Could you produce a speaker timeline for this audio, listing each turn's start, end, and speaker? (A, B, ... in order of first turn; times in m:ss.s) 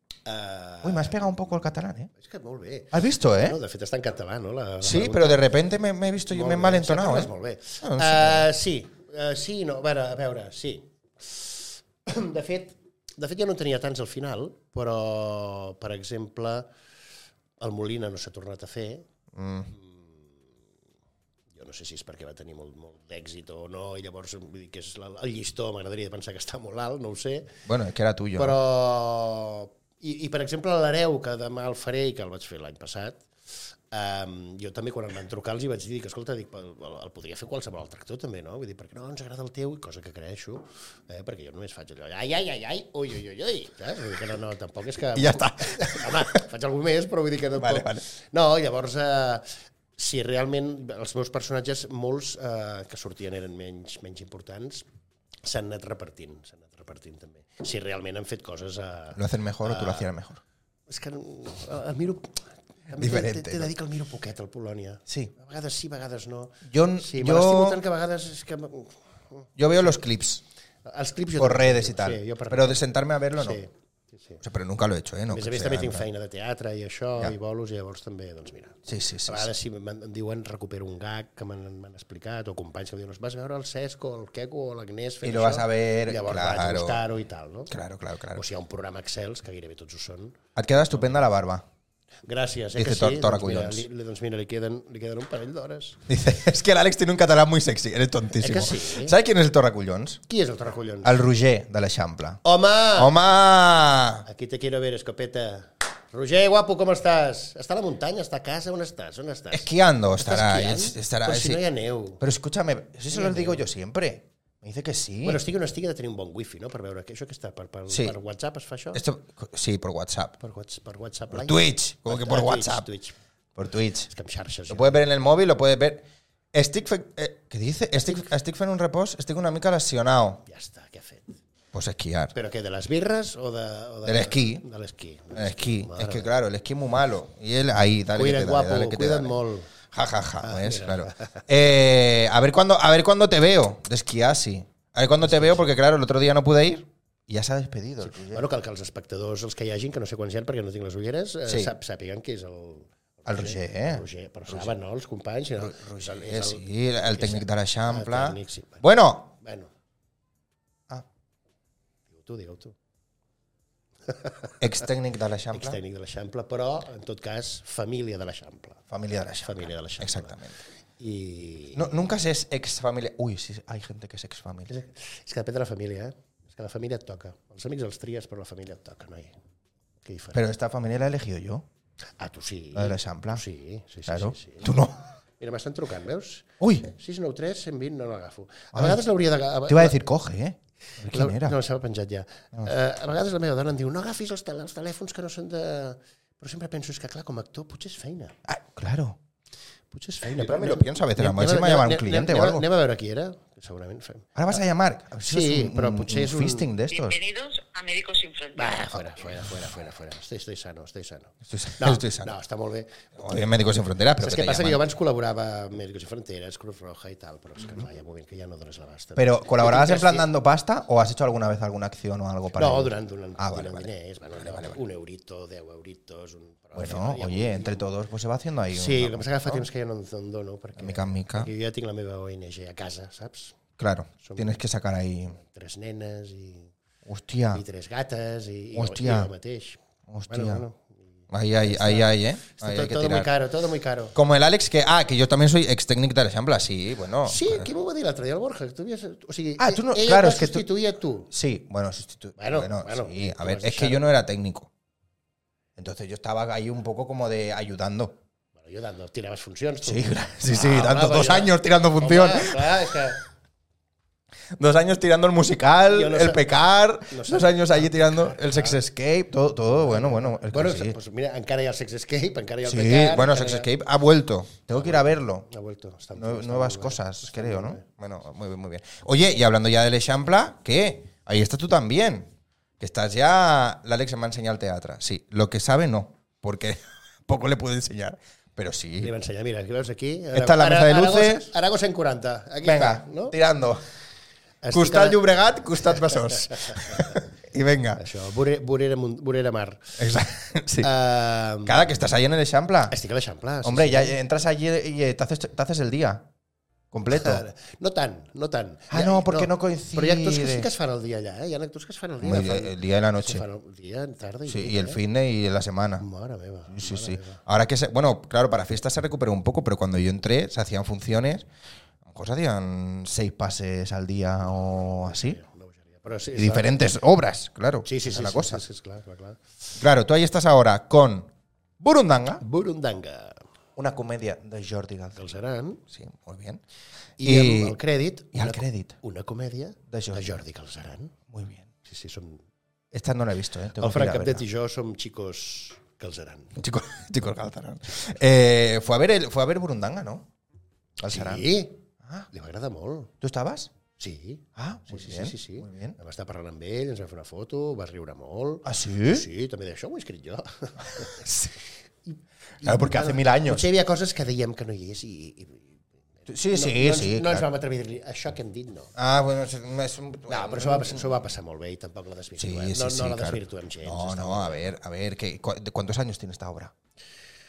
0:00.2-0:01.3 A
0:00.8-0:02.1 B
0:02.2-0:05.4 A
0:02.9-0:03.6 B
0:04.8-0:07.3 B
0:06.2-0:16.7 A
0:07.8-0:08.4 B
0:17.6-0:19.1 A
0:19.3-0:19.7 B
0:19.7-0:20.3 A
0:21.5-0:27.6 A
0:27.6-0:28.6 B
0:28.4-0:33.3 A
0:33.9-0:54.8 A
0:45.1-0:46.3 B
0:47.6-0:48.0 B
0:55.4-1:00.1 A
0:59.2-1:00.4 B
1:00.9-1:09.5 A
1:02.9-1:03.7 B
1:05.1-1:05.3 B
1:06.6-1:07.8 B
1:09.6-1:10.4 B
1:10.8-1:14.4 A
1:11.4-1:13.6 B
1:14.4-1:16.0 B
1:15.3-1:27.7 A
1:18.8-1:19.5 B
1:25.2-1:27.0 B
1:27.7-1:28.4 B
1:28.3-1:30.4 A
1:30.5-1:31.6 B
1:32.2-1:36.0 A
1:32.7-1:33.8 B
1:36.1-1:40.2 B
1:38.4-1:39.2 A
1:40.3-1:41.2 A
1:41.0-1:42.4 B
1:42.4-1:43.1 A
1:43.0-1:44.2 B
1:44.2-1:52.2 A
1:49.5-1:51.6 B
1:52.2-1:55.4 B
1:53.1-1:53.6 A
1:55.2-1:59.0 A
1:57.9-1:58.1 B
1:58.9-2:00.4 B
2:00.4-2:03.2 A
2:01.3-2:02.8 B
2:03.6-2:04.1 B
2:04.1-2:05.0 A
2:04.7-2:10.4 B
2:10.4-2:11.4 A
2:11.7-2:12.3 B
2:12.3-2:16.3 A
2:14.0-2:14.6 B
2:15.3-2:19.4 B
2:18.1-2:19.7 A
2:19.9-2:28.4 B
2:20.4-2:21.4 A
2:25.3-2:25.6 A
2:28.0-2:38.8 A
2:33.2-2:34.7 B
2:35.6-2:39.3 B
2:39.3-2:39.7 A
2:42.1-2:42.7 A
2:44.1-2:44.5 A
2:44.6-2:45.8 B
2:45.5-2:48.8 A
2:48.9-2:50.6 B
2:49.4-2:50.4 A
2:51.0-2:51.9 A
2:51.7-2:54.7 B
2:54.7-2:59.3 A
3:00.0-3:00.4 A
3:00.3-3:01.6 B
3:02.2-3:04.7 A
3:02.7-3:03.4 B
3:04.0-3:05.1 B
3:05.4-3:10.0 A
3:06.6-3:06.9 B
3:08.7-3:09.0 B
3:09.7-3:11.6 B
3:11.0-3:18.3 A
3:18.4-3:19.2 B
3:19.9-3:24.4 A
3:20.2-3:22.6 B
3:24.4-3:27.2 B
3:25.2-3:26.7 A
3:26.9-3:28.9 C
3:28.5-3:33.1 A
3:31.5-3:32.3 B
3:33.2-3:34.8 B
3:34.2-3:40.3 A
3:39.2-3:44.8 B
3:42.5-3:47.8 A
3:46.7-3:49.7 B
3:48.7-3:53.6 A
3:50.8-3:51.5 B
3:53.8-3:55.4 B
3:54.2-3:54.6 A
3:55.4-3:56.7 A
3:57.0-3:57.6 B
3:57.5-4:04.1 A
3:58.7-3:59.3 B
4:00.1-4:00.6 B
4:01.3-4:03.3 B
4:04.1-4:07.7 B
4:07.2-4:11.3 A
4:09.6-4:10.7 B
4:11.3-4:14.7 B
4:12.4-4:14.0 A
4:15.8-4:18.2 B
4:18.6-4:23.2 A
4:19.8-4:23.0 B
4:24.6-4:31.0 B
4:25.9-4:26.4 A
4:27.0-4:28.8 A
4:29.7-4:33.7 A
4:32.6-4:35.5 B
4:34.7-4:37.8 A
4:36.1-4:49.1 B
4:49.0-4:53.4 A
4:50.3-4:51.5 B
4:52.6-4:53.8 B
4:54.6-4:55.2 A
4:54.7-4:58.0 B
4:55.9-4:57.2 A
4:58.0-5:00.0 A
5:00.0-5:00.9 B
5:00.8-5:02.0 A
5:01.6-5:03.0 B
5:02.9-5:04.2 A
5:03.6-5:06.3 B
5:06.9-5:07.4 B
5:07.1-5:15.0 A
5:08.9-5:10.7 B
5:12.2-5:13.4 B
5:14.5-5:16.0 B
5:16.0-5:17.4 A
5:16.7-5:21.4 B
5:22.0-5:25.4 B
5:24.4-5:26.8 A
5:26.3-5:28.6 B
5:27.8-5:29.4 A
5:29.8-5:32.4 B
5:32.4-5:33.4 A
5:33.8-5:35.2 B
5:35.1-5:35.8 A
5:35.9-5:36.6 B
5:37.2-5:41.1 A
5:37.2-5:37.8 B
5:38.3-5:39.0 B
5:39.9-5:40.4 B
5:41.3-5:41.7 B
5:41.8-5:42.4 A
5:42.9-5:44.4 B
5:43.8-5:46.6 A
5:46.6-5:50.3 B
5:51.0-5:51.4 B
5:51.0-5:53.1 A
5:52.0-5:52.3 B
5:53.2-5:53.7 B
5:54.0-6:01.3 A
5:54.6-5:56.0 B
5:58.6-5:59.2 B
6:00.8-6:01.5 B
6:02.1-6:08.9 A
6:02.6-6:03.6 B
6:06.3-6:07.4 B
6:09.0-6:11.0 B
6:10.3-6:14.7 A
6:12.4-6:16.7 B